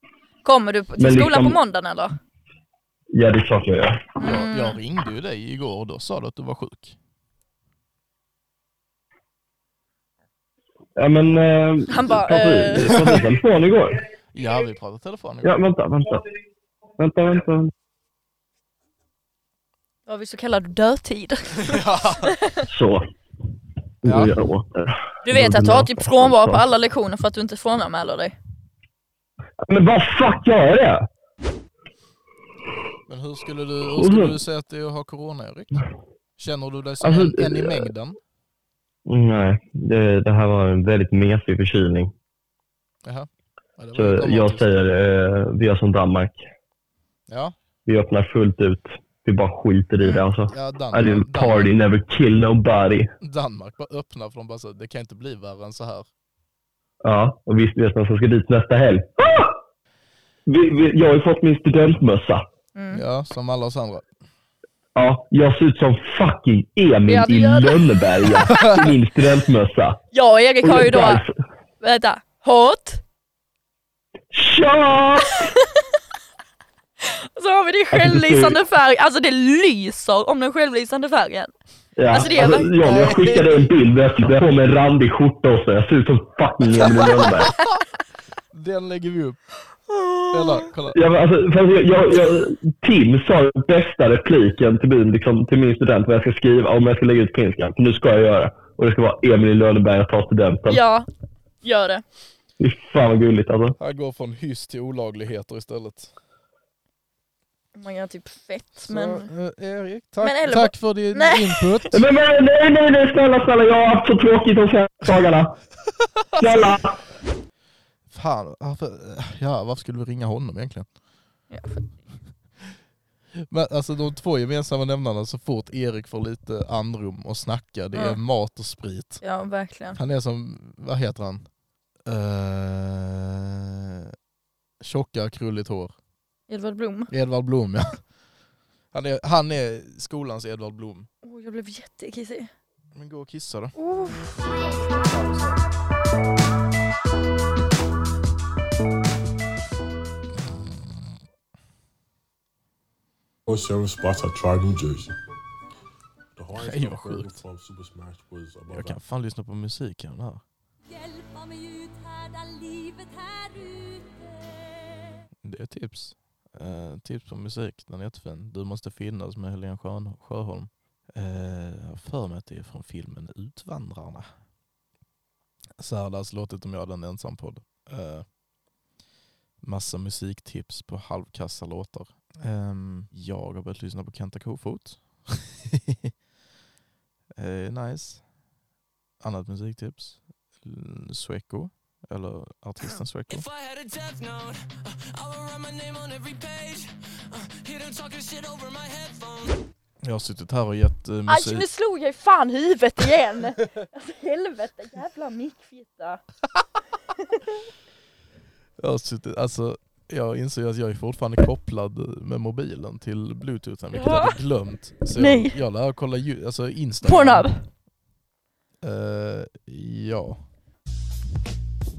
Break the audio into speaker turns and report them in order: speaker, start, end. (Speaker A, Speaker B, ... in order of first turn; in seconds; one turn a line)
Speaker A: 0.4-2.1
Speaker B: 1.0-1.6
Speaker B: 3.1-4.2
Speaker A: 4.2-4.8
Speaker C: 4.2-7.0
Speaker B: 11.0-14.0
Speaker A: 11.9-13.1
Speaker C: 12.9-13.3
Speaker C: 14.3-15.6
Speaker B: 15.4-16.3
Speaker B: 17.0-17.7
Speaker A: 20.1-22.6
Speaker C: 21.6-22.4
Speaker B: 22.7-23.1
Speaker B: 24.0-26.6
Speaker C: 24.1-24.3
Speaker A: 25.2-28.4
Speaker B: 29.6-31.1
Speaker C: 33.1-35.8
Speaker B: 33.9-34.4
Speaker C: 36.4-38.2
Speaker B: 37.0-37.9
Speaker B: 39.1-42.1
Speaker C: 43.0-44.8
Speaker B: 43.9-46.4
Speaker C: 47.3-47.5
Speaker B: 47.9-53.1
Speaker C: 50.5-51.8
Speaker C: 53.2-56.1
Speaker B: 57.0-59.6
Speaker B: 60.5-62.4
Speaker A: 62.8-63.0
Speaker C: 62.9-64.1
Speaker B: 65.0-70.0
Speaker A: 67.1-68.8
Speaker C: 68.5-68.8
Speaker A: 70.1-71.2
Speaker B: 70.6-71.3
Speaker A: 71.8-73.0
Speaker B: 74.3-75.5
Speaker A: 75.2-75.8
Speaker A: 77.0-81.5
Speaker B: 77.9-78.6
Speaker B: 82.0-87.6
Speaker A: 82.1-82.7
Speaker C: 82.1-83.7
Speaker C: 86.8-87.8
Speaker C: 88.5-89.4
Speaker A: 89.9-90.7
Speaker C: 90.3-91.0
Speaker B: 90.9-100.8
Speaker A: 100.7-101.1
Speaker A: 101.6-102.0
Speaker B: 102.6-103.8
Speaker C: 103.8-106.1
Speaker A: 107.8-109.3
Speaker C: 108.8-112.0
Speaker A: 110.2-111.8
Speaker B: 111.9-115.6
Speaker B: 116.4-117.0
Speaker C: 118.1-120.9
Speaker A: 121.5-121.8
Speaker C: 123.5-129.2
Speaker A: 127.9-128.2
Speaker A: 129.2-130.0
Speaker C: 129.9-131.4
Speaker C: 132.1-134.1
Speaker C: 134.8-135.9
Speaker A: 136.5-137.1
Speaker C: 137.1-138.0
Speaker C: 138.9-141.1
Speaker A: 141.2-142.5
Speaker C: 142.9-145.6
Speaker A: 143.8-144.3
Speaker C: 150.4-151.1
Speaker D: 153.5-155.1
Speaker D: 156.3-159.0
Speaker C: 156.6-157.4
Speaker C: 158.7-160.4
Speaker E: 160.9-165.2
Speaker C: 165.4-174.3
Speaker C: 175.8-178.3
Speaker C: 179.6-186.1
Speaker C: 187.4-188.2
Speaker C: 189.2-193.5
Speaker F: 193.3-199.6
Speaker C: 200.0-201.7
Speaker A: 201.3-206.2
Speaker A: 207.1-207.6
Speaker C: 208.8-217.5
Speaker A: 213.9-214.4
Speaker A: 215.2-215.6
Speaker A: 217.0-217.6
Speaker C: 218.8-220.4